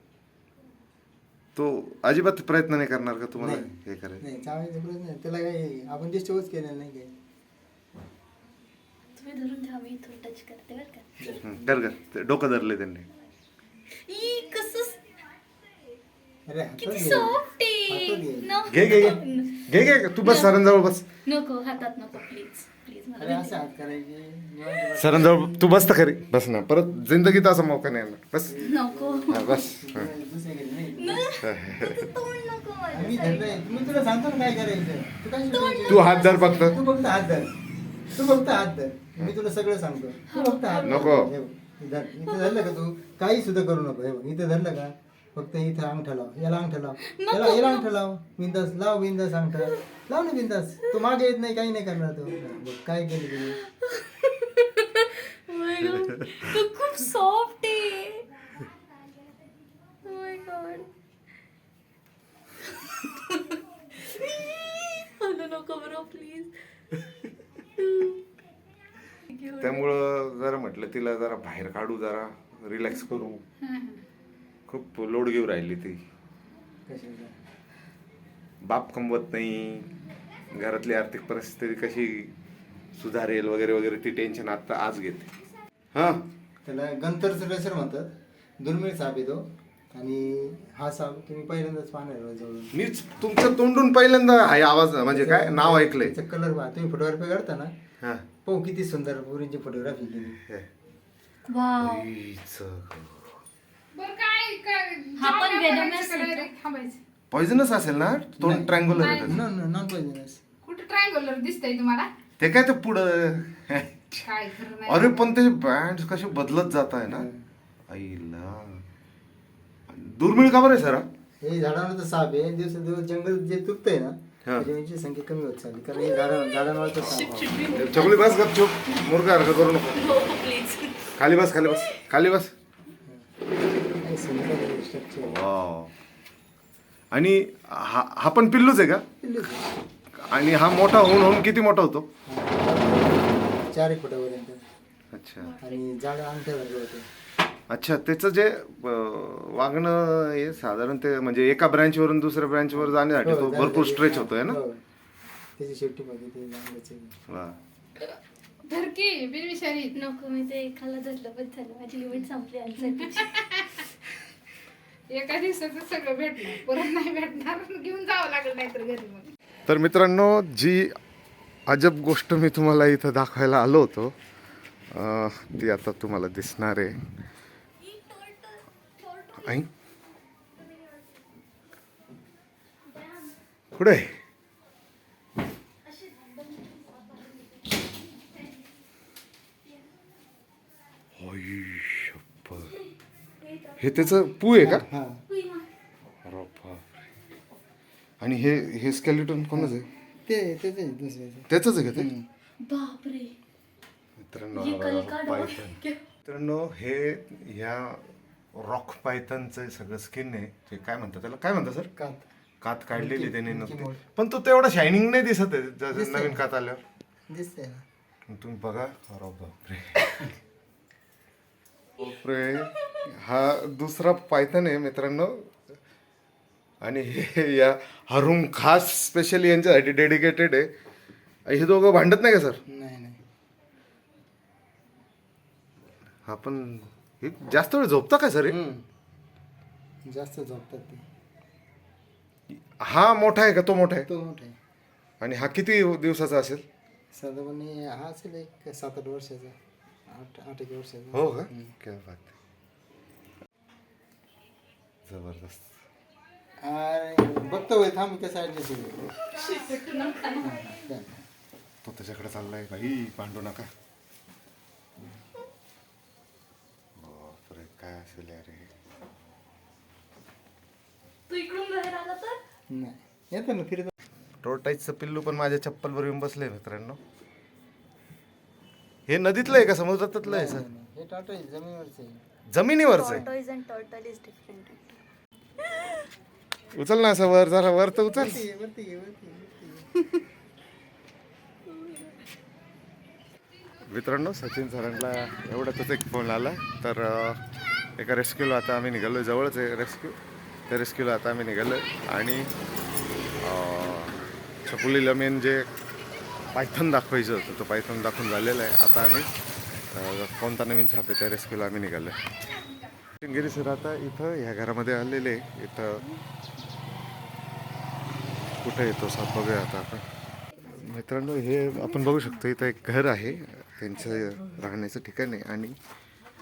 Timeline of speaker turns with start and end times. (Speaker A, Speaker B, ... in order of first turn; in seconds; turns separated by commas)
Speaker A: 1.6-4.2, Speaker B: 3.4-7.1, Speaker C: 9.2-11.4, Speaker A: 11.4-13.1, Speaker C: 14.0-15.0, Speaker B: 16.5-18.9, Speaker C: 16.8-19.6, Speaker A: 18.7-21.1, Speaker C: 20.2-20.6, Speaker C: 21.2-23.6, Speaker B: 23.2-25.5, Speaker A: 25.0-28.7, Speaker B: 28.5-31.4, Speaker C: 28.6-29.6, Speaker A: 29.3-30.1, Speaker C: 31.0-33.6, Speaker A: 31.4-32.1, Speaker B: 32.9-37.5, Speaker C: 35.5-36.1, Speaker A: 35.9-36.8, Speaker B: 38.1-53.6, Speaker C: 40.3-41.1, Speaker A: 40.8-41.3, Speaker C: 42.3-42.7, Speaker C: 47.1-47.9, Speaker C: 53.7-58.2, Speaker C: 60.0-60.9, Speaker C: 62.8-66.5, Speaker C: 67.8-68.2, Speaker C: 69.3-69.8, Speaker A: 69.6-73.4, Speaker D: 73.6-74.0, Speaker A: 74.7-76.0, Speaker B: 76.9-77.4, Speaker A: 78.6-79.9, Speaker A: 80.5-82.3, Speaker A: 83.0-85.3, Speaker A: 85.9-86.2, Speaker B: 86.6-92.7, Speaker A: 92.7-96.2, Speaker B: 95.1-97.7, Speaker A: 98.0-98.3, Speaker B: 98.5-100.4, Speaker A: 100.4-100.7, Speaker C: 101.5-102.1, Speaker A: 101.8-103.2, Speaker D: 103.9-107.0, Speaker C: 105.2-106.5, Speaker A: 107.3-109.4, Speaker B: 108.4-110.4, Speaker D: 109.0-109.3, Speaker D: 110.6-112.1, Speaker A: 112.4-114.3, Speaker D: 114.3-115.3, Speaker A: 114.8-117.3, Speaker B: 117.1-117.4, Speaker A: 117.9-118.8, Speaker A: 119.9-121.1, Speaker B: 121.4-127.6, Speaker C: 126.0-128.5, Speaker A: 127.4-130.0, Speaker C: 129.9-131.1, Speaker A: 131.2-132.5, Speaker B: 133.9-135.4, Speaker A: 135.2-135.9, Speaker A: 137.1-139.1, Speaker B: 139.2-139.7, Speaker A: 140.2-142.1, Speaker B: 142.3-144.6, Speaker A: 145.1-145.6, Speaker B: 145.6-147.1, Speaker A: 147.7-154.6, Speaker B: 152.7-154.8, Speaker B: 155.6-157.2, Speaker A: 157.3-157.6, Speaker D: 158.7-160.0, Speaker C: 159.9-163.4, Speaker D: 162.9-163.9, Speaker D: 165.1-169.3, Speaker A: 169.7-171.0, Speaker A: 171.7-174.1, Speaker A: 174.9-177.0, Speaker C: 177.9-178.6, Speaker A: 179.4-179.7, Speaker A: 183.7-184.2, Speaker C: 186.1-186.8, Speaker A: 191.2-192.8, Speaker C: 193.5-194.1, Speaker A: 193.8-194.8, Speaker B: 194.6-195.2, Speaker C: 195.3-195.7, Speaker A: 196.2-197.0, Speaker A: 198.2-199.9, Speaker B: 199.6-202.3, Speaker A: 201.5-202.1, Speaker C: 202.6-203.4, Speaker A: 204.2-211.9, Speaker C: 204.6-206.0, Speaker B: 212.0-212.2, Speaker A: 212.6-216.8, Speaker B: 212.9-214.0, Speaker B: 215.9-216.4, Speaker B: 217.3-217.8, Speaker A: 218.3-220.3, Speaker A: 222.0-225.3, Speaker A: 226.8-230.7, Speaker A: 231.5-232.6, Speaker B: 232.7-233.2, Speaker A: 236.3-238.6, Speaker B: 238.5-238.8, Speaker B: 240.1-241.0, Speaker A: 242.7-244.1, Speaker B: 244.1-244.6, Speaker A: 245.2-246.6, Speaker B: 247.1-251.7, Speaker A: 251.1-252.3, Speaker A: 255.1-255.7, Speaker B: 256.6-259.1, Speaker D: 259.3-260.5, Speaker C: 259.4-260.4, Speaker B: 260.4-261.2, Speaker A: 261.8-263.7, Speaker A: 267.0-268.7, Speaker C: 271.3-272.4, Speaker B: 272.7-273.9, Speaker A: 274.4-277.0, Speaker A: 279.1-280.7, Speaker B: 280.2-282.2, Speaker A: 282.5-283.2, Speaker C: 282.9-285.0, Speaker C: 285.6-286.0, Speaker A: 286.8-288.4, Speaker B: 288.1-289.9, Speaker C: 291.7-292.1, Speaker A: 293.9-297.4, Speaker A: 298.0-300.2, Speaker A: 300.7-302.5, Speaker A: 303.4-305.7, Speaker A: 306.5-309.3, Speaker A: 309.9-312.3, Speaker A: 313.2-316.1, Speaker A: 318.6-320.0, Speaker A: 320.7-325.8